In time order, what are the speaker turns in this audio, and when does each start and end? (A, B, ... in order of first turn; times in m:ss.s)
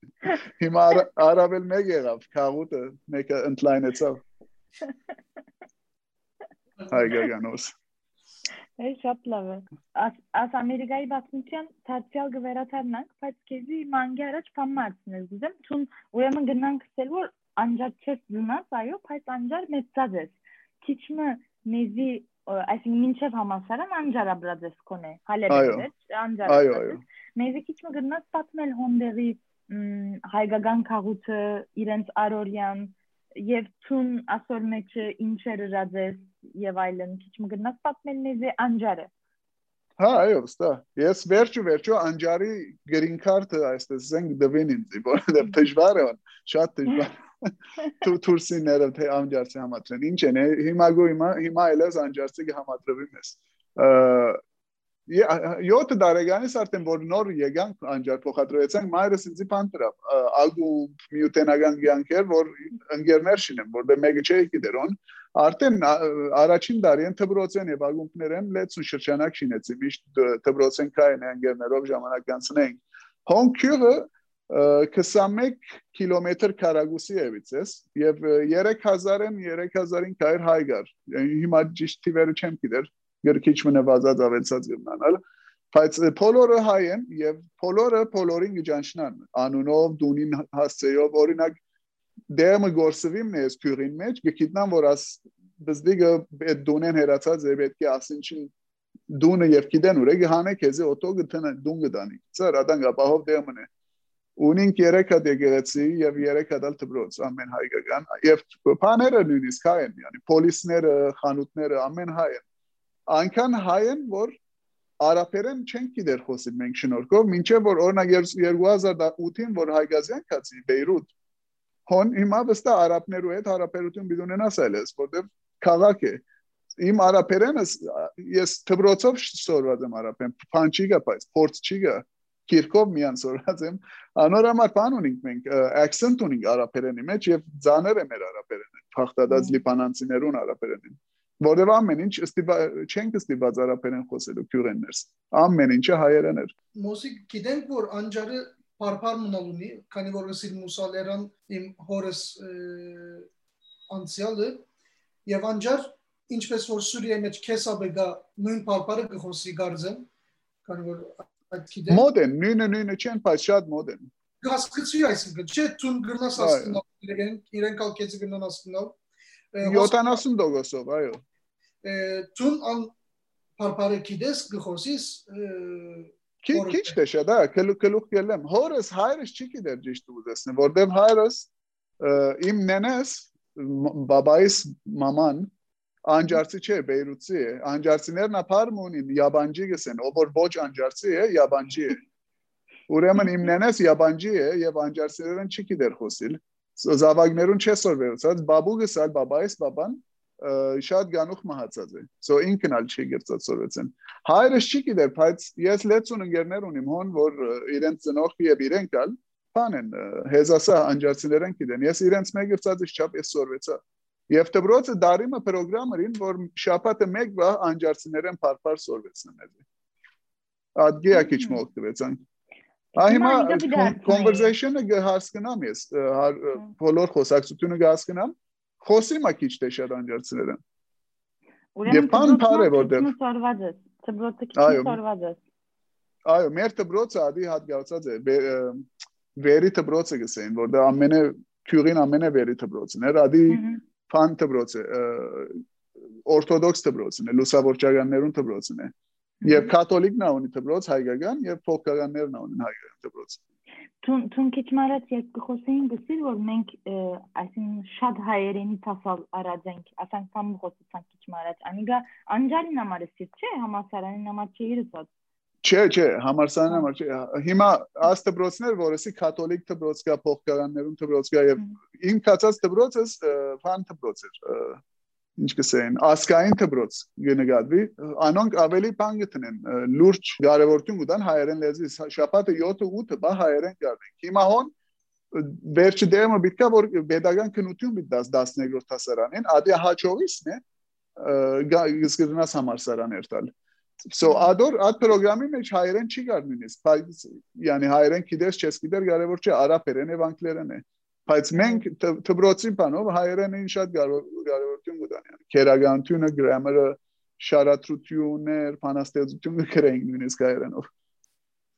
0:00.3-0:04.2 A
0:06.9-0:07.8 A
0:08.8-0:39.1 B
0:25.5-0:25.9 A
0:26.5-0:27.0 A
0:40.0-0:54.4 A
0:55.1-1:25.2 A
1:25.7-1:31.6 A
1:32.3-1:38.5 A
1:39.1-1:43.7 A
1:44.4-1:52.4 A
1:53.1-1:54.4 A
1:55.0-2:01.1 A
2:01.9-2:06.2 A
2:06.8-2:26.5 A
2:19.3-2:19.6 B
2:26.8-2:33.3 C
2:33.9-2:34.6 C
2:35.3-2:40.1 C
2:40.7-2:42.1 C
2:41.9-2:44.1 A
2:44.4-2:49.0 C
2:46.4-2:46.8 A
2:49.5-2:50.2 C
2:49.6-2:51.2 A
2:51.8-2:52.9 C
2:53.6-2:57.0 C
2:56.4-3:05.5 A
3:06.1-3:12.0 A
3:12.9-3:39.6 A
3:40.8-3:42.2 A
3:41.1-3:41.6 B
3:43.0-3:50.6 A
3:43.0-3:44.5 B
3:51.8-3:55.4 B
3:51.9-3:53.1 A
3:54.6-3:55.0 A
3:56.3-4:05.6 A
4:03.5-4:03.8 B
4:06.2-4:08.9 A
4:09.4-4:09.7 B
4:09.4-4:13.4 A
4:14.0-4:25.1 B
4:25.6-4:34.8 A
4:35.4-4:44.7 A
4:45.3-4:50.6 A
4:51.2-4:53.5 A
4:54.0-5:10.9 A
4:54.2-4:54.6 B
5:01.6-5:01.8 B